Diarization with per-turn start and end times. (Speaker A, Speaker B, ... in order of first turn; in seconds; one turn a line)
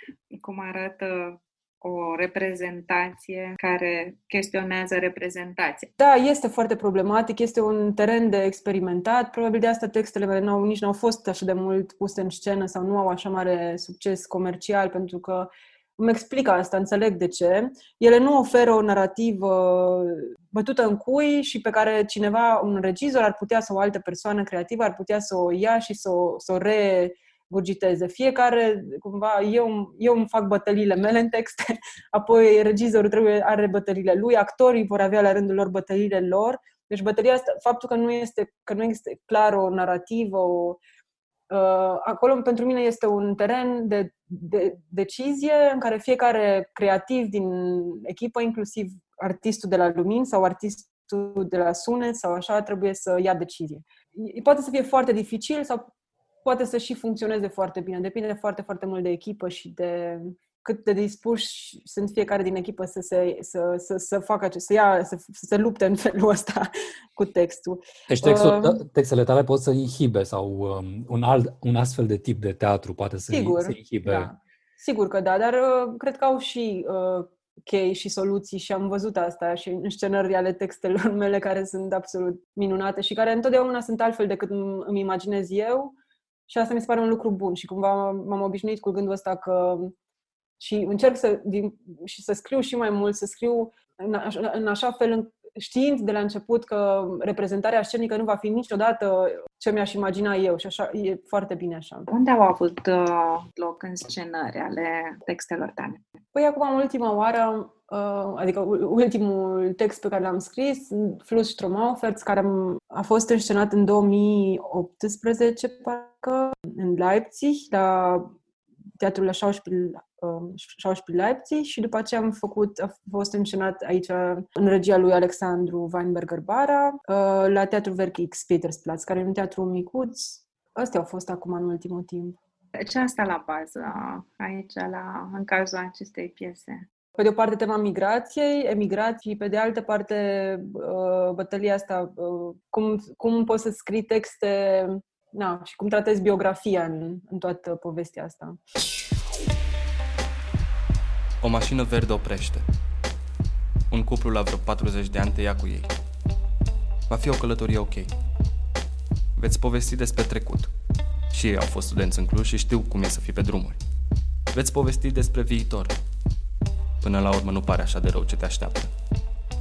Speaker A: 0.3-5.9
Speaker B: 6.0-40.8
Speaker B: 41.5-55.9
Speaker B: 56.4-68.8
Speaker C: 68.1-74.3
Speaker B: 73.3-86.0
Speaker B: 86.5-89.9
Speaker B: 90.6-102.1
Speaker A: 102.1-106.0
Speaker B: 106.3-118.3
Speaker B: 119.0-132.4
Speaker A: 132.7-136.8
Speaker B: 137.2-148.6
Speaker D: 151.4-152.6
Speaker D: 153.9-156.0
Speaker D: 157.1-158.1
Speaker D: 159.3-160.7
Speaker D: 161.3-163.8
Speaker D: 164.5-165.9
Speaker D: 167.0-168.9